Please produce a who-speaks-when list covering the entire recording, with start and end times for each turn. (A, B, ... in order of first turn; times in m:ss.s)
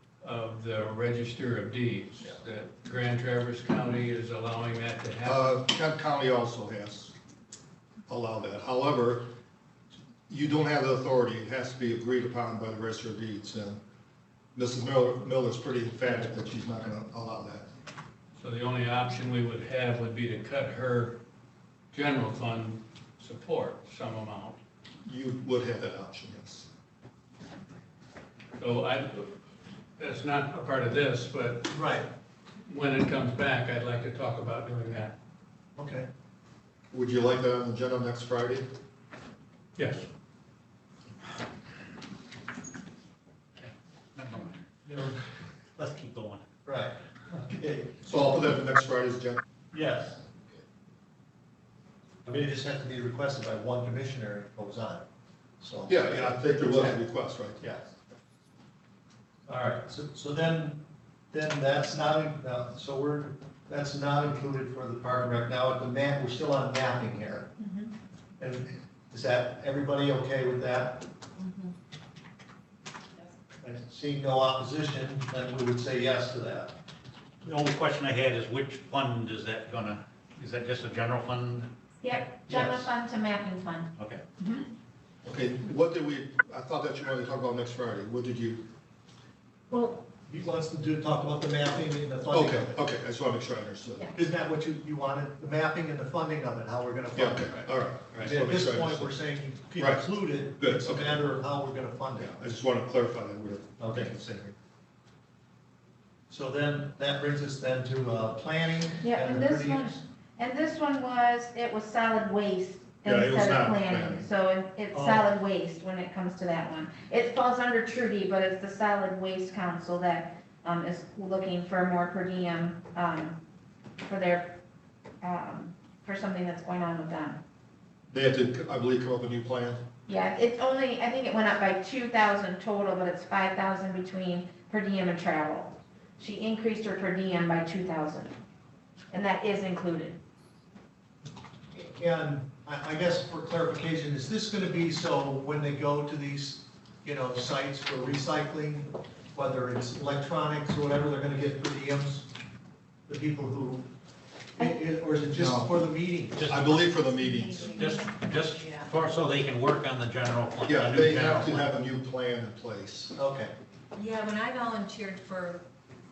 0:00.2-0:05.6 A
0:05.2-0:07.2 B
0:08.1-0:09.3 B
0:10.3-0:13.8 B
0:14.6-0:17.7 B
0:18.4-0:21.2 A
0:21.9-0:24.6 A
0:25.0-0:26.7 B
0:28.6-0:29.3 A
0:30.0-0:31.8 A
0:31.7-0:32.1 C
0:32.7-0:35.1 A
0:35.8-0:36.1 C
0:36.9-0:38.7 B
0:39.8-0:40.1 A
0:43.6-0:45.0 D
0:45.8-0:46.4 D
0:46.6-0:48.2 C
0:48.0-0:49.4 B
0:49.7-0:50.2 C
0:52.3-0:55.0 C
0:55.6-0:57.0 C
0:55.9-0:57.6 B
0:57.6-0:57.9 C
0:59.5-1:07.5 C
1:07.6-1:07.9 E
1:08.4-1:11.1 C
1:11.4-1:11.7 E
1:13.6-1:16.7 C
1:17.4-1:22.7 D
1:22.0-1:24.7 F
1:24.0-1:24.2 D
1:25.2-1:28.7 B
1:30.2-1:32.8 C
1:32.3-1:34.1 B
1:34.1-1:37.6 C
1:37.2-1:39.2 B
1:38.2-1:42.3 C
1:39.8-1:41.3 B
1:42.2-1:44.3 B
1:43.8-1:44.6 C
1:46.3-1:50.0 C
1:49.0-2:03.4 F
1:53.1-1:54.3 B
1:54.9-1:55.3 C
2:04.0-2:04.6 F
2:05.2-2:07.4 F
2:08.1-2:09.8 B
2:10.1-2:18.4 F
2:19.1-2:20.2 F
2:21.7-2:32.3 C
2:33.1-2:33.9 C
2:34.6-2:36.4 C
2:35.3-2:35.9 B
2:36.4-2:36.9 D
2:36.5-2:37.7 B
2:37.0-2:39.0 E
2:37.7-2:41.7 D
2:40.7-2:43.1 B
2:43.2-2:43.5 C
2:43.9-2:45.6 E